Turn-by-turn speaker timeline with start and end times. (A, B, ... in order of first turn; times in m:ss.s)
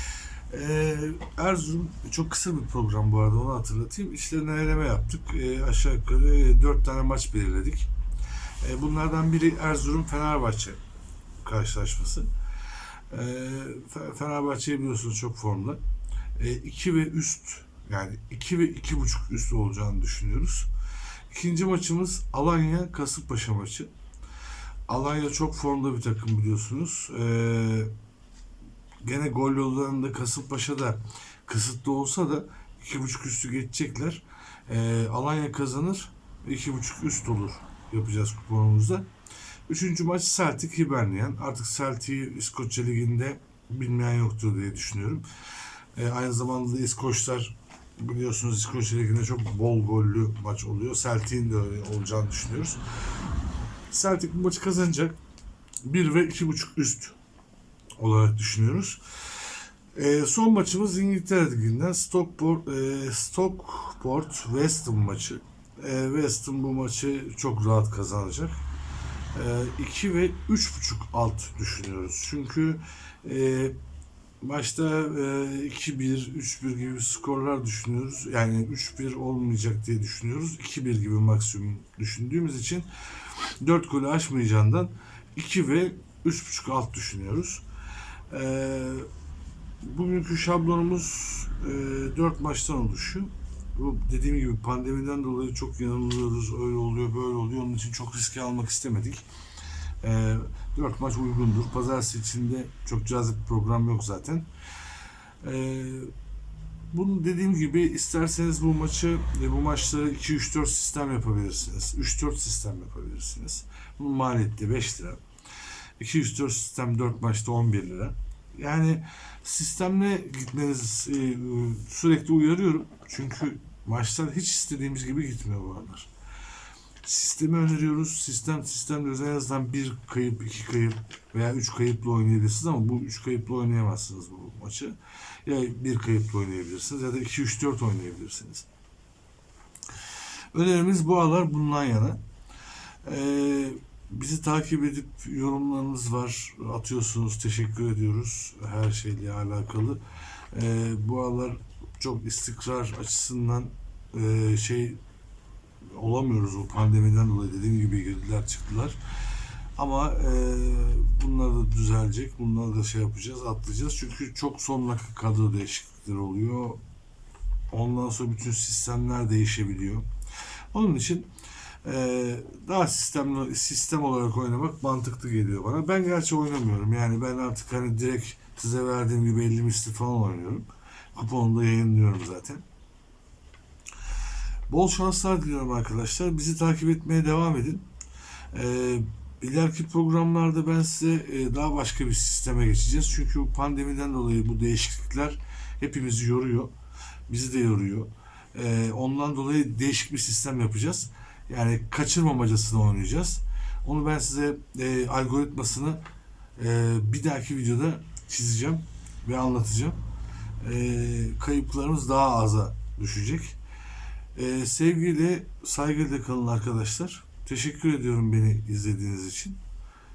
0:00.5-0:07.9 A
0:08.6-0:10.8 A
0:11.4-0:12.3 A
0:13.1-0:15.8 A
0:16.4-0:20.7 A
0:21.3-0:23.9 A
0:24.9-0:27.9 A
0:29.0-0:39.1 A
0:39.7-0:45.2 A
0:45.9-0:52.8 A
0:53.9-0:55.2 A
0:55.8-0:57.2 A
0:58.0-0:59.0 A
0:59.9-1:08.6 A
1:09.3-1:13.8 A
1:14.4-1:27.6 A
1:28.3-1:29.1 A
1:29.8-1:39.2 A
1:40.0-1:44.5 A
1:45.4-1:46.1 A
1:46.9-1:55.2 A
1:56.0-2:06.1 A
2:07.0-2:18.7 A
2:20.5-2:22.2 A
2:23.0-2:35.0 A
2:35.8-2:39.0 A
2:39.8-2:46.8 A
2:47.7-2:50.1 A
2:50.7-2:51.3 A
2:51.8-3:02.6 A
3:04.7-3:07.9 A
3:08.5-3:16.7 A
3:17.3-3:26.0 A
3:26.6-3:30.0 A
3:30.6-3:33.6 A
3:34.3-3:39.6 A